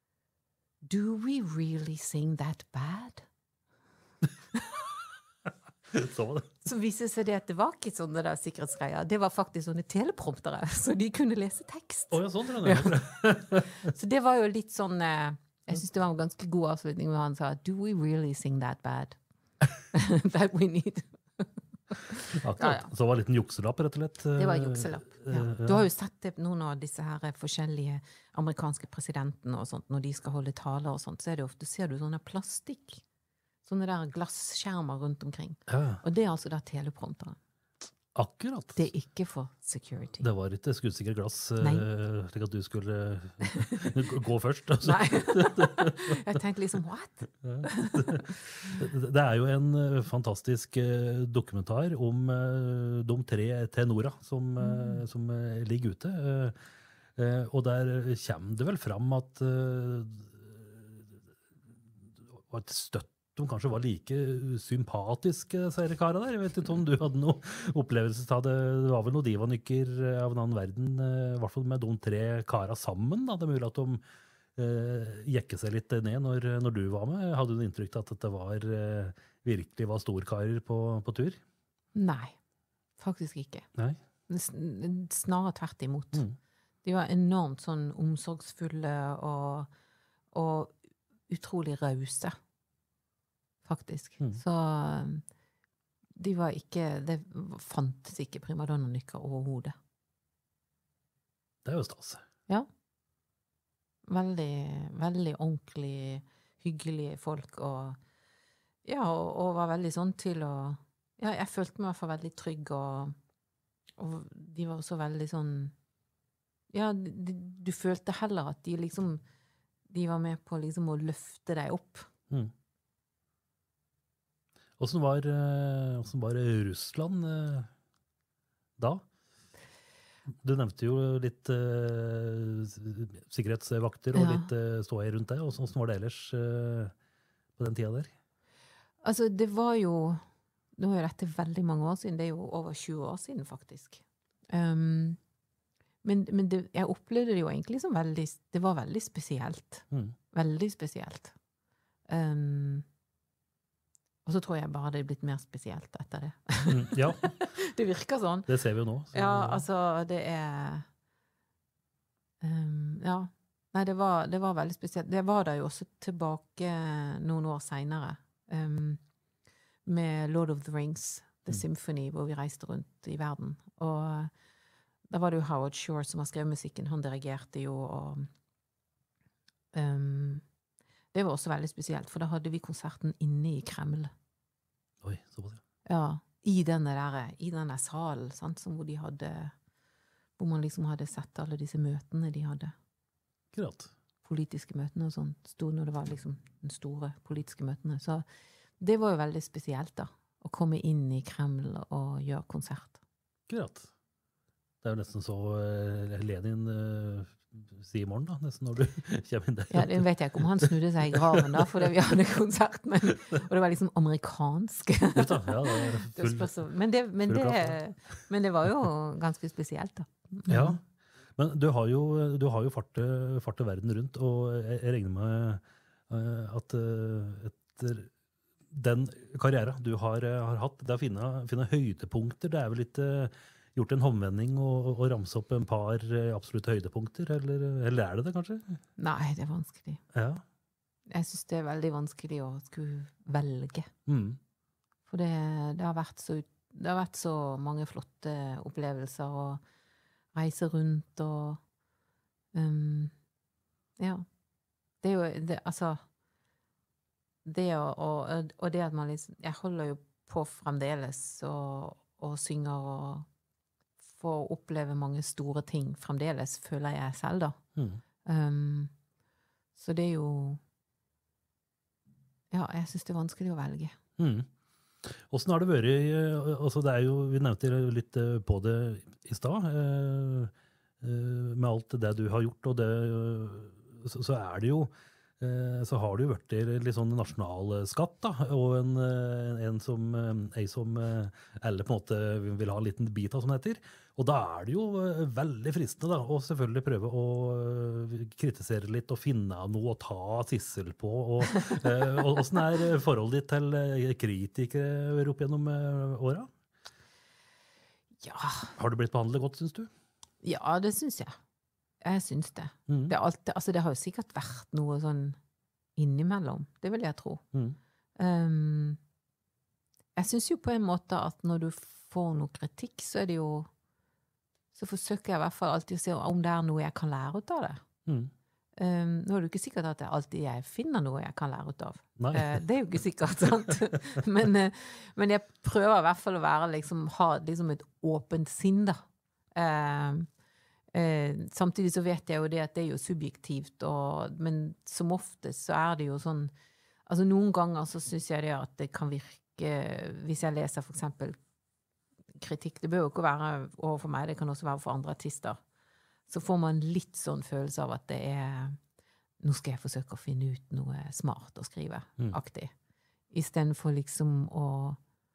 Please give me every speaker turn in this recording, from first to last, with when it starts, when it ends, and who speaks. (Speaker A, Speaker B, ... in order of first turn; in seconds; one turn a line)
Speaker A: 0.8-3.3
Speaker B: 5.9-6.6
Speaker A: 6.6-19.2
Speaker B: 12.1-13.9
Speaker A: 19.9-22.9
Speaker B: 22.4-25.8
Speaker A: 24.4-33.0
Speaker A: 33.6-37.4
Speaker B: 35.7-36.0
Speaker B: 38.1-38.9
Speaker A: 38.8-40.3
Speaker B: 40.2-46.4
Speaker A: 41.6-41.9
Speaker A: 43.4-44.0
Speaker A: 44.8-48.2
Speaker B: 47.4-56.6
Speaker A: 54.6-55.0
Speaker B: 57.2-61.2
Speaker B: 62.3-74.0
Speaker B: 74.6-81.4
Speaker A: 82.0-82.4
Speaker A: 83.0-83.7
Speaker A: 84.3-86.3
Speaker A: 86.8-89.7
Speaker A: 90.3-90.8
Speaker A: 91.3-92.4
Speaker A: 93.7-95.2
Speaker A: 96.2-99.8
Speaker B: 101.7-102.2
Speaker A: 104.1-108.0
Speaker A: 108.8-113.2
Speaker A: 114.0-115.7
Speaker A: 116.7-119.2
Speaker A: 119.9-122.1
Speaker B: 124.8-127.7
Speaker B: 128.8-129.1
Speaker B: 130.4-136.9
Speaker A: 134.1-134.5
Speaker B: 137.6-138.1
Speaker A: 139.0-140.2
Speaker A: 140.8-145.2
Speaker A: 146.0-151.3
Speaker A: 152.1-152.9
Speaker A: 154.3-158.5
Speaker B: 156.7-157.5
Speaker B: 158.5-159.6
Speaker A: 159.1-160.9
Speaker A: 162.4-169.0
Speaker A: 169.8-174.3
Speaker A: 175.1-178.3
Speaker A: 179.7-180.4
Speaker A: 181.1-184.1
Speaker B: 185.0-185.6
Speaker A: 185.9-189.5
Speaker A: 190.4-192.7
Speaker B: 193.5-193.9
Speaker A: 194.2-198.2
Speaker A: 198.8-203.0
Speaker B: 203.5-203.9
Speaker B: 204.8-211.9
Speaker A: 209.7-220.8
Speaker B: 215.2-216.5
Speaker B: 217.2-217.8
Speaker B: 220.5-220.8
Speaker B: 221.4-228.1
Speaker B: 228.7-238.8
Speaker A: 239.0-240.0
Speaker B: 240.1-240.4
Speaker A: 241.1-243.9
Speaker B: 244.1-244.4
Speaker A: 245.1-249.6
Speaker A: 250.3-251.6
Speaker A: 252.5-253.1
Speaker A: 254.0-254.3
Speaker A: 255.0-256.0
Speaker A: 257.4-263.3
Speaker A: 264.1-267.6
Speaker A: 268.2-268.9
Speaker A: 269.8-270.6
Speaker A: 272.5-274.0
Speaker B: 274.2-274.5
Speaker B: 275.0-306.5
Speaker A: 308.2-308.7
Speaker B: 308.8-309.9
Speaker A: 310.4-311.4
Speaker A: 312.0-315.4
Speaker B: 312.9-313.1
Speaker A: 316.0-317.4
Speaker A: 318.2-319.0
Speaker A: 320.2-323.7
Speaker A: 324.7-327.8
Speaker B: 328.1-328.3
Speaker A: 328.8-339.0
Speaker B: 332.2-332.6
Speaker A: 339.6-340.3
Speaker A: 340.9-346.5
Speaker A: 347.1-351.4
Speaker A: 352.4-355.6
Speaker A: 356.3-358.8
Speaker A: 359.4-362.7
Speaker A: 363.3-365.0